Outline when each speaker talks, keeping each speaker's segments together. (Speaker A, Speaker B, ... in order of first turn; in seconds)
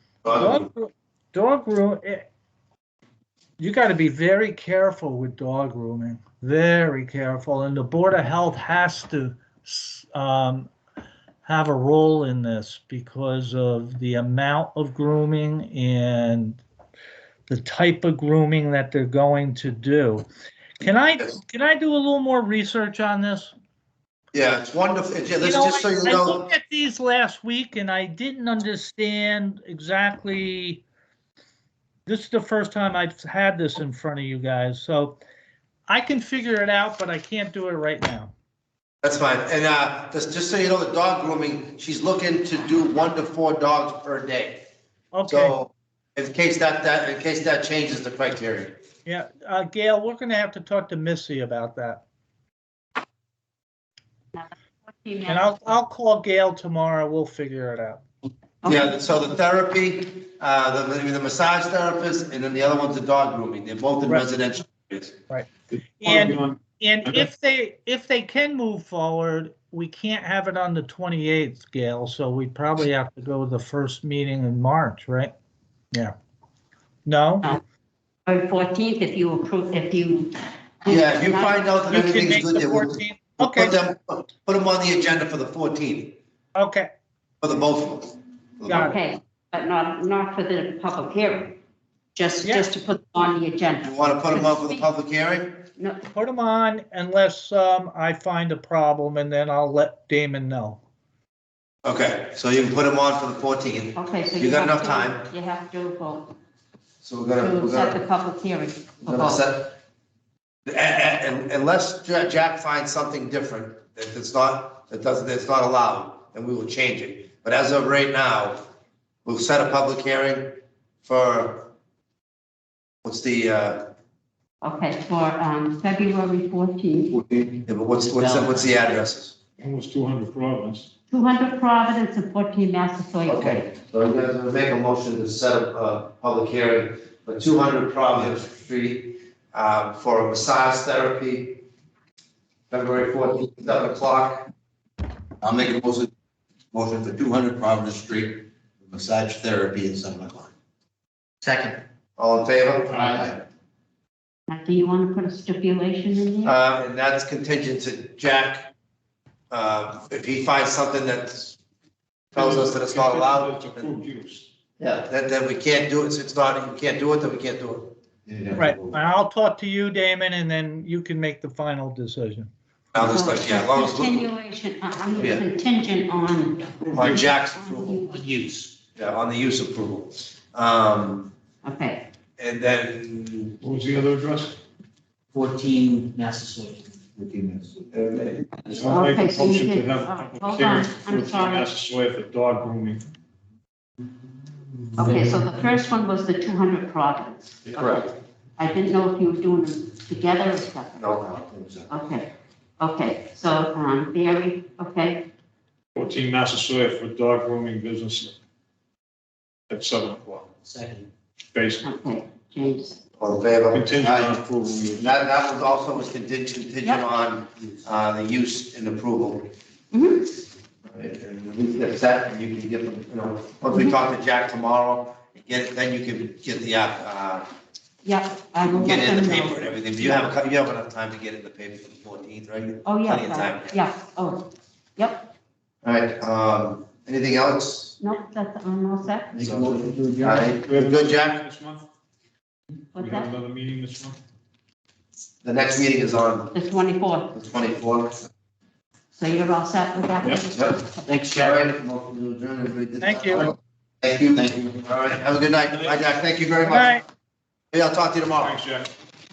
Speaker A: 0.2-0.7, 24.3-26.4, 39.0-44.6, 45.3-48.8, 58.6-65.1, 80.9-86.2, 87.4-88.9, 93.8-95.7, 101.8-105.3, 107.0-108.0, 109.0-109.8, 110.7-118.6, 119.2-121.7, 123.0-123.9, 127.2-129.4, 133.3-141.6, 142.7-144.5, 152.2-153.0, 156.4-158.7, 159.5-161.6, 162.3-163.9, 164.8-168.7, 172.9-174.3, 175.2-175.4, 176.9-178.0, 179.0-181.3, 182.4-183.6, 187.9-188.4, 197.7-198.1, 201.0-201.9, 213.2-214.4, 215.0-219.5, 220.9-227.5, 228.7-233.8, 235.8-238.0, 239.3-241.4, 245.4-246.5, 247.3-248.2, 251.3-257.0, 257.7-258.6
Speaker B: 0.3-2.3, 3.6-10.7, 11.4-16.6, 17.5-20.3, 20.8-23.5, 25.4-30.8, 32.1-35.2, 35.9-38.3, 45.1-45.5, 49.1-52.0, 55.3-58.0, 66.0-75.3, 77.1-77.5, 81.9-83.8, 86.5-86.9, 88.7-89.0, 92.4-92.7, 96.2-100.8, 168.5-172.5, 253.0-253.5, 256.7-257.0
Speaker C: 54.3-55.5, 58.6-58.9, 78.3-81.8, 88.7-91.6, 92.2-94.8, 104.0-106.3, 107.4-109.4, 124.6-127.2, 128.2-128.6, 131.1-133.7, 154.5-156.6, 173.0-178.2, 181.6-182.0, 188.8-191.7, 195.0-201.0, 201.9-205.3, 211.8-213.0, 219.9-220.3, 228.0-230.3, 232.8-235.3, 238.0-239.3, 242.9-243.3, 246.5-247.3, 249.2-251.0
Speaker D: 65.7-67.3, 129.6-130.9, 162.3-164.5, 177.0-177.2, 183.6-184.6, 188.7-193.0, 205.9-208.4, 209.7-210.5, 211.5-211.8, 213.7-215.1, 240.4-241.8, 243.0-244.2, 258.4-258.9
Speaker E: 145.4-146.1, 146.7-150.5, 153.0-153.2, 186.3-186.7
Speaker F: 151.4-151.7, 185.3-187.8, 210.7-211.1, 239.3-240.5, 251.1-251.6, 254.4-254.6